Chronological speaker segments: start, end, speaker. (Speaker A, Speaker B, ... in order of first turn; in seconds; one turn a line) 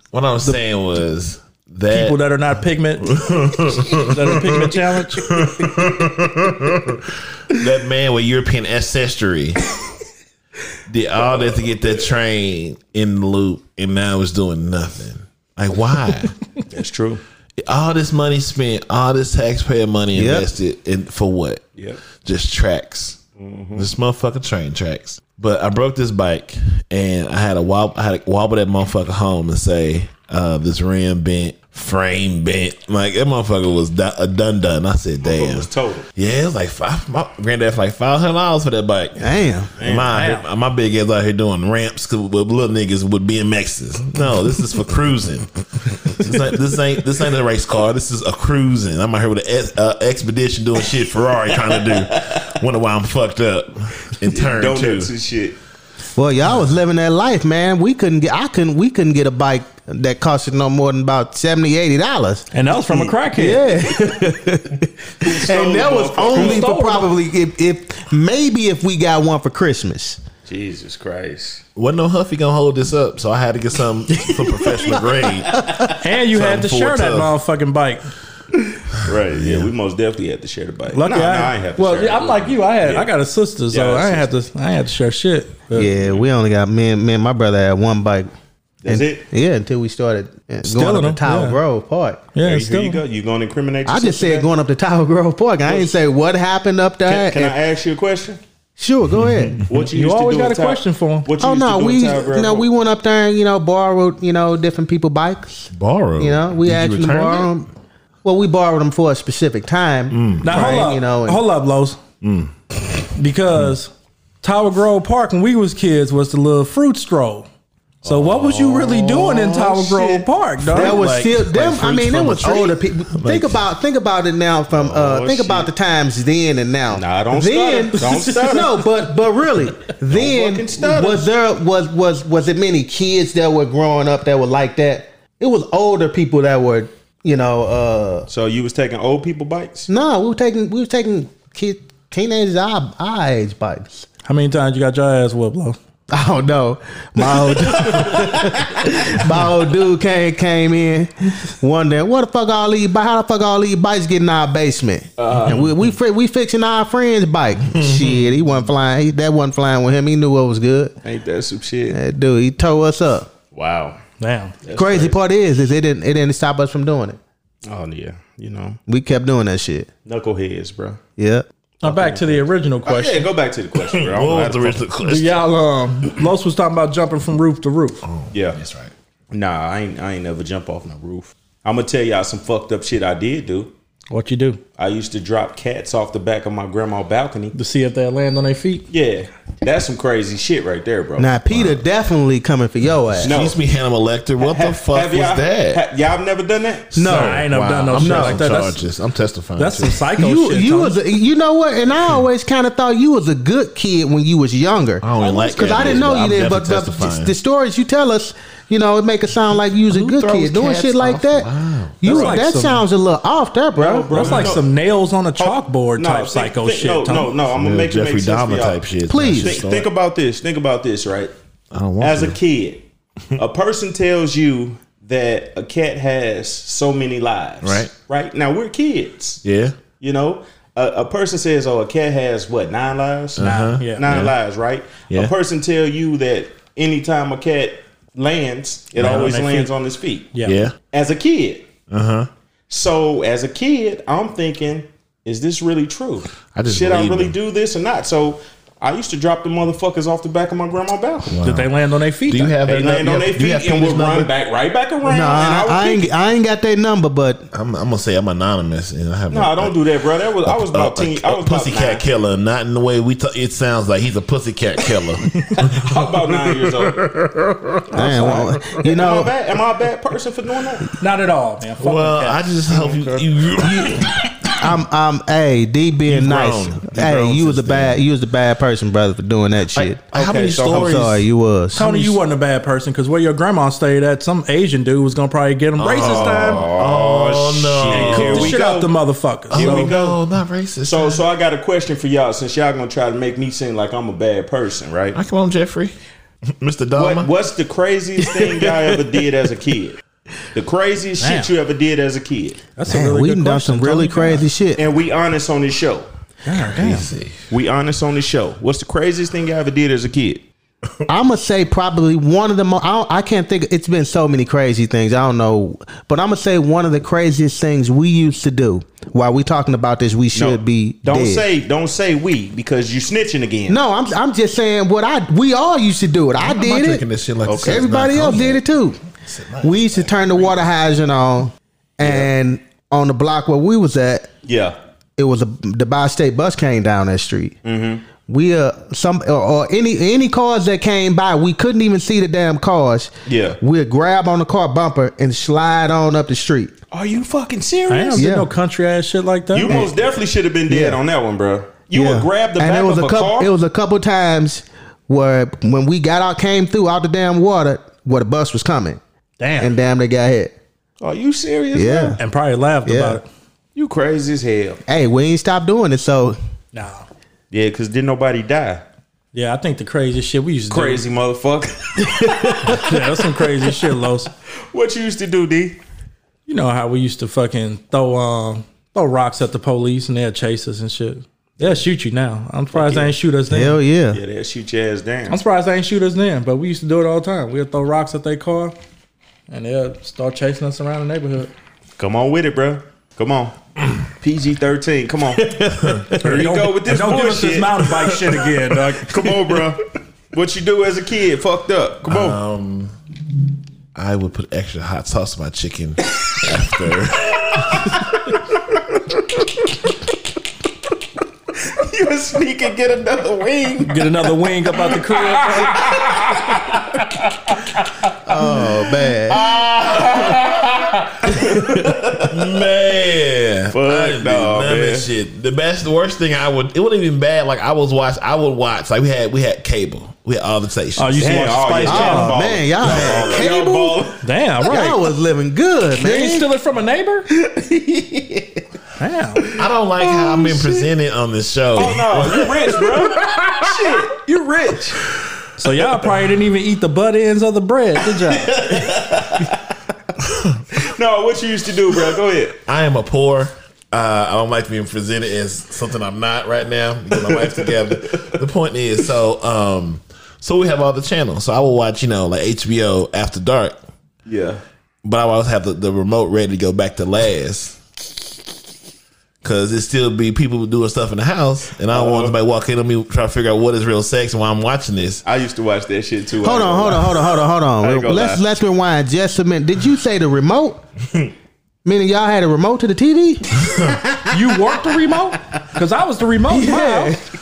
Speaker A: 0.1-2.4
Speaker B: 1.9-5.3
Speaker A: 3.0-9.6
Speaker A: 10.9-16.4
Speaker C: 16.7-17.2
Speaker A: 17.6-21.6
Speaker D: 20.1-20.5
Speaker A: 22.2-23.2
Speaker C: 23.4-23.9
Speaker A: 23.7-55.1
Speaker C: 35.2-36.1
Speaker D: 39.2-39.7
Speaker C: 39.8-40.1
Speaker B: 40.1-40.4
Speaker C: 51.7-52.4
Speaker C: 54.2-55.6
Speaker D: 56.1-62.5
Speaker B: 62.5-63.7
Speaker D: 63.3-70.2
Speaker C: 65.2-66.7
Speaker B: 66.3-67.1
Speaker C: 70.5-71.6
Speaker A: 71.8-77.3
Speaker D: 74.3-74.6
Speaker D: 75.6-75.8
Speaker B: 75.9-78.0
Speaker C: 78.9-83.1
Speaker A: 79.1-79.7
Speaker B: 80.9-85.9
Speaker C: 83.7-84.3
Speaker D: 85.7-88.3
Speaker C: 86.0-86.2
Speaker C: 88.8-89.3
Speaker D: 88.9-92.2
Speaker B: 90.6-91.6
Speaker B: 92.3-93.0
Speaker C: 92.4-94.5
Speaker D: 93.8-97.6
Speaker C: 95.6-96.0
Speaker C: 97.0-98.4
Speaker D: 98.8-99.6
Speaker A: 99.1-99.6
Speaker C: 99.7-102.7
Speaker B: 99.7-101.3
Speaker D: 101.4-107.7
Speaker A: 105.7-107.5
Speaker D: 108.2-111.4
Speaker A: 110.1-110.8
Speaker B: 110.4-112.0
Speaker A: 112.2-112.5
Speaker B: 113.1-113.9
Speaker B: 114.4-117.5
Speaker C: 118.0-120.3
Speaker B: 118.0-121.0
Speaker D: 120.7-138.3
Speaker A: 120.7-123.7
Speaker C: 124.7-125.7
Speaker C: 126.9-128.8
Speaker B: 128.0-128.4
Speaker C: 130.1-131.2
Speaker C: 138.3-139.9
Speaker D: 139.9-144.1
Speaker B: 144.2-145.8
Speaker D: 146.1-160.9
Speaker C: 155.2-155.7
Speaker A: 157.6-158.7
Speaker C: 161.0-162.0
Speaker D: 161.9-163.3
Speaker C: 163.5-164.0
Speaker B: 164.2-164.5
Speaker C: 164.6-165.2
Speaker D: 164.7-167.2
Speaker C: 167.7-168.8
Speaker D: 168.9-169.9
Speaker C: 170.1-171.0
Speaker D: 171.2-171.4
Speaker B: 171.8-173.3
Speaker C: 171.8-174.8
Speaker A: 173.9-175.4
Speaker B: 175.0-178.0
Speaker A: 178.0-178.9
Speaker C: 178.3-178.6
Speaker C: 179.3-183.7
Speaker B: 184.1-184.6
Speaker C: 184.8-187.5
Speaker B: 187.5-188.9
Speaker C: 188.9-191.3
Speaker D: 191.2-193.3
Speaker A: 191.5-191.8
Speaker A: 193.2-195.8
Speaker C: 193.2-193.6
Speaker C: 194.4-197.0
Speaker D: 196.9-198.5
Speaker A: 197.0-200.1
Speaker B: 197.0-198.8
Speaker B: 199.6-201.0
Speaker D: 200.2-211.5
Speaker A: 205.0-207.3
Speaker C: 205.4-206.1
Speaker A: 209.8-212.0
Speaker D: 212.0-214.2
Speaker B: 212.0-212.8
Speaker C: 212.1-212.4
Speaker C: 213.7-214.7
Speaker B: 214.1-217.3
Speaker A: 214.2-214.6
Speaker C: 215.4-218.8
Speaker A: 217.5-219.9
Speaker D: 219.1-219.5
Speaker C: 219.3-221.3
Speaker A: 221.7-222.4
Speaker C: 222.0-222.8
Speaker C: 223.3-229.4
Speaker A: 227.6-227.9
Speaker A: 229.4-229.8
Speaker C: 230.0-240.3
Speaker A: 233.4-234.3
Speaker B: 233.4-234.1
Speaker A: 238.9-239.4
Speaker B: 239.0-239.7
Speaker A: 240.4-240.8
Speaker C: 240.9-241.7
Speaker A: 241.9-242.3
Speaker C: 242.7-251.4
Speaker A: 246.5-247.4
Speaker A: 251.3-254.3
Speaker B: 251.4-252.6
Speaker C: 252.6-256.1
Speaker D: 255.0-257.5
Speaker A: 257.5-259.8
Speaker C: 259.3-262.0
Speaker A: 260.4-268.6
Speaker C: 265.6-267.0
Speaker C: 267.9-270.9
Speaker D: 267.9-269.3
Speaker B: 271.0-273.2
Speaker A: 271.8-274.4
Speaker D: 273.6-280.0
Speaker A: 276.0-278.0
Speaker A: 279.7-281.2
Speaker C: 280.1-281.0
Speaker D: 280.7-282.1
Speaker B: 281.7-286.6
Speaker A: 285.8-288.6
Speaker C: 285.9-288.9
Speaker B: 287.9-289.9
Speaker A: 289.5-291.2
Speaker C: 289.5-290.2
Speaker C: 290.8-295.2
Speaker A: 295.1-295.9
Speaker A: 296.6-297.3
Speaker C: 296.9-300.0
Speaker D: 298.3-298.9
Speaker C: 300.5-302.6
Speaker B: 301.2-301.5
Speaker B: 302.8-304.5
Speaker D: 302.9-304.8
Speaker C: 304.8-306.1
Speaker B: 306.4-307.1
Speaker A: 306.5-307.4
Speaker C: 307.5-310.4
Speaker D: 311.1-321.4
Speaker C: 320.3-323.8
Speaker D: 323.7-327.0
Speaker A: 326.4-330.7
Speaker C: 327.4-327.8
Speaker D: 327.6-329.0
Speaker D: 329.6-334.3
Speaker C: 332.0-332.3
Speaker C: 334.4-334.8
Speaker D: 335.2-337.6
Speaker C: 337.6-338.0
Speaker D: 338.2-346.7
Speaker C: 343.3-343.6
Speaker C: 346.9-348.3
Speaker B: 347.9-349.9
Speaker D: 348.1-348.5
Speaker C: 349.5-353.5
Speaker D: 349.6-349.9
Speaker D: 350.7-351.0
Speaker D: 351.9-359.0
Speaker B: 359.4-359.7
Speaker D: 359.6-360.5
Speaker C: 361.0-362.2
Speaker D: 361.7-362.2
Speaker B: 362.2-363.3
Speaker D: 362.9-363.2
Speaker C: 363.7-364.8
Speaker D: 364.9-366.4
Speaker B: 366.7-367.1
Speaker C: 367.5-368.8
Speaker B: 369.3-371.0
Speaker C: 370.7-372.8
Speaker D: 372.0-372.8
Speaker B: 372.6-374.3
Speaker C: 374.7-375.8
Speaker B: 376.5-383.8
Speaker C: 382.7-383.1
Speaker D: 383.5-384.2
Speaker C: 384.1-385.4
Speaker B: 385.3-388.7
Speaker B: 389.5-391.5
Speaker C: 392.0-393.5
Speaker C: 394.2-395.5
Speaker B: 395.7-399.3
Speaker A: 395.8-396.3
Speaker C: 396.2-397.9
Speaker A: 398.0-398.4
Speaker C: 399.1-402.4
Speaker A: 402.1-402.9
Speaker A: 403.9-408.4
Speaker C: 411.5-414.3
Speaker B: 413.8-415.9
Speaker C: 414.8-416.7
Speaker A: 415.7-417.6
Speaker D: 418.2-419.4
Speaker A: 419.2-431.6
Speaker C: 421.3-422.3
Speaker C: 423.7-425.1
Speaker B: 431.0-432.4
Speaker C: 431.2-434.2
Speaker D: 431.8-434.1
Speaker A: 432.8-433.2
Speaker B: 434.2-435.0
Speaker D: 434.6-436.5
Speaker B: 436.0-437.3
Speaker D: 437.4-438.4
Speaker B: 439.0-439.4
Speaker A: 439.5-443.9
Speaker C: 440.0-440.9
Speaker C: 441.7-445.0
Speaker B: 445.6-448.9
Speaker C: 448.4-449.6
Speaker A: 450.3-450.6
Speaker C: 450.7-452.6
Speaker A: 452.6-463.8
Speaker C: 457.1-458.4
Speaker C: 464.2-464.6
Speaker A: 465.0-467.8
Speaker A: 469.4-475.2
Speaker C: 471.9-472.3
Speaker C: 475.2-478.4
Speaker D: 476.4-480.8
Speaker D: 481.8-484.3
Speaker A: 483.6-484.0
Speaker B: 484.3-487.1
Speaker D: 486.5-487.2